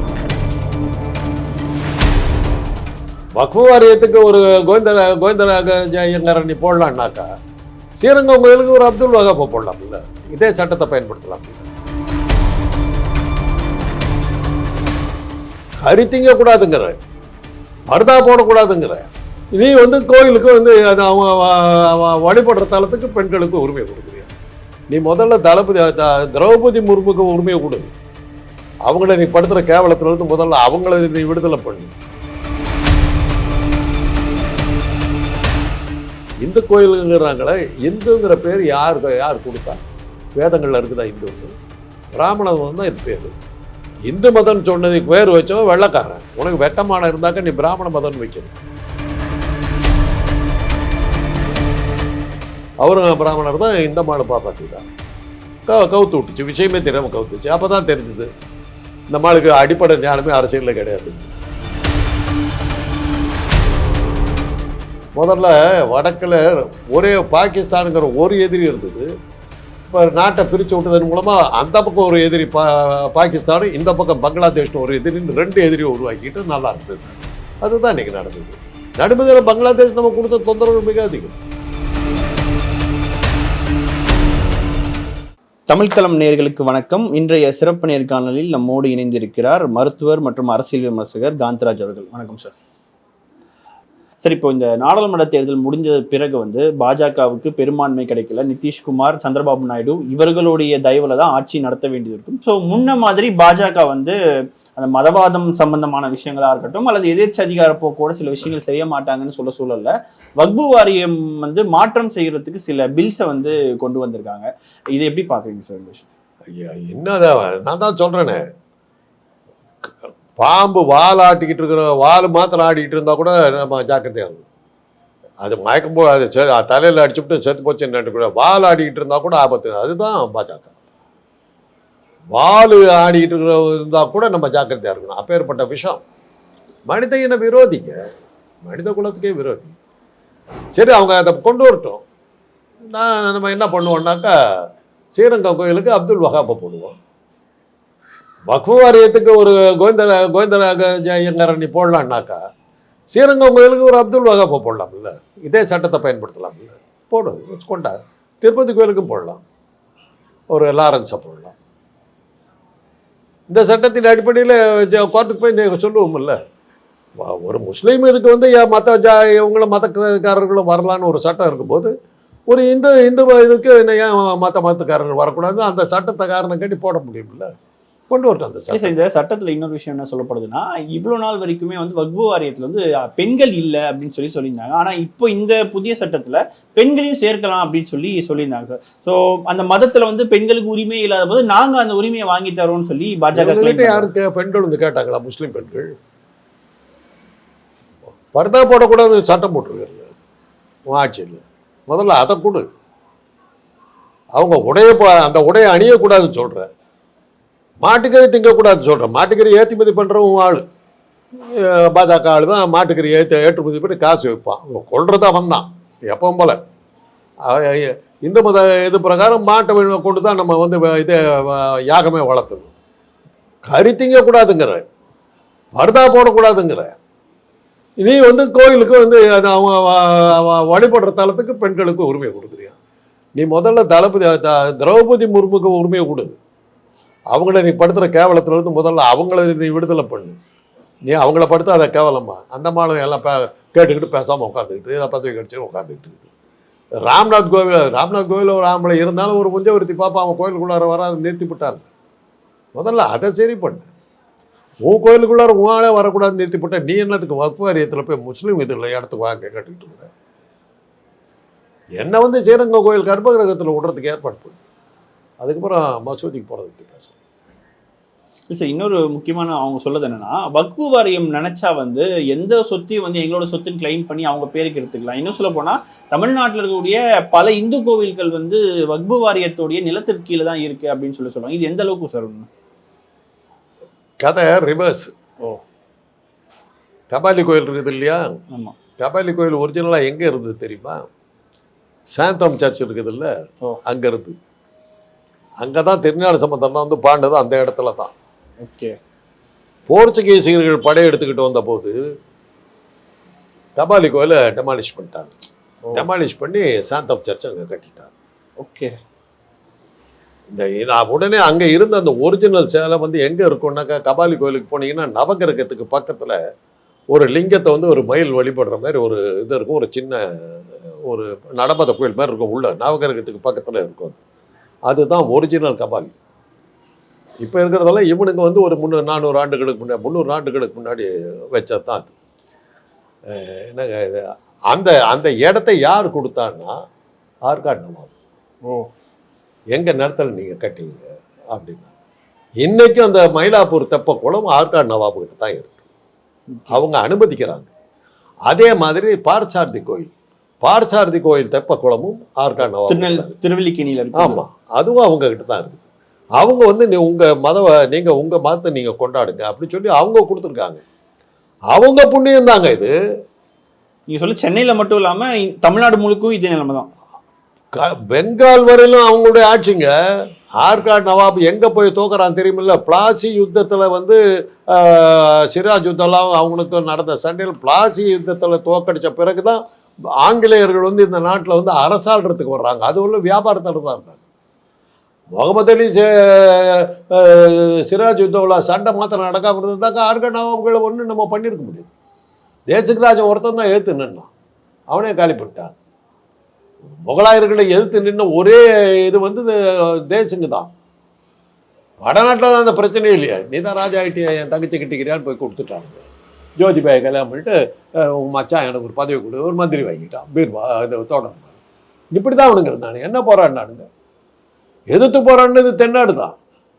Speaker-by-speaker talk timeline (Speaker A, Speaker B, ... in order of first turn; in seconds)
Speaker A: 3.4-7.3, 8.0-11.7, 15.8-17.0, 17.9-24.3, 24.9-27.9, 28.9-31.9, 36.4-39.8, 40.4-41.5, 42.2-43.4, 44.1-48.6, 52.8-54.9, 55.7-58.3, 59.1-61.3, 65.2-69.1, 69.9-81.4, 116.5-118.4, 119.8-124.4, 125.4-130.7, 132.3-136.0, 136.9-138.0, 138.7-139.8, 140.8-142.0, 142.9-144.3, 145.2-147.0, 148.5-152.4, 153.1-159.4, 160.5-161.6, 163.5-166.4, 167.2-171.9, 172.5-177.5, 178.1-179.0, 193.3-195.9, 198.3-200.1, 200.9-202.7, 204.4-206.7, 207.8-210.6, 211.5-216.6, 217.4-222.7, 223.7-224.9, 225.8-227.0, 228.0-232.8, 233.4-236.3, 237.3-240.4, 241.1-246.3, 247.1-251.9, 252.8-253.9, 254.9-260.1, 262.0-264.6, 265.4-267.2, 284.2-285.1, 287.1-288.4, 289.0-291.0, 292.1-293.3, 293.9-294.4, 295.6-298.1, 299.9-301.9, 303.8-305.3, 305.9-308.1, 310.5-316.4, 317.1-324.2, 324.9-326.1, 327.4-332.1, 333.3-336.7, 337.5-338.1, 339.8-341.9, 342.6-345.8, 346.7-347.7, 348.5-350.1, 350.6-353.4, 354.1-355.8, 356.4-360.8, 361.7-362.9, 367.8-369.9, 370.6-379.6, 380.2-384.2, 385.3-391.9, 392.7-394.3, 394.9-395.7, 396.9-400.7, 402.0-406.1, 406.6-411.5, 412.1-413.9, 414.9-416.4
Speaker B: 85.7-92.5, 94.2-104.2, 104.8-116.1, 178.7-194.1, 268.5-282.5, 288.5-288.8, 298.6-299.0, 308.6-308.9, 352.9-354.4, 364.1-366.9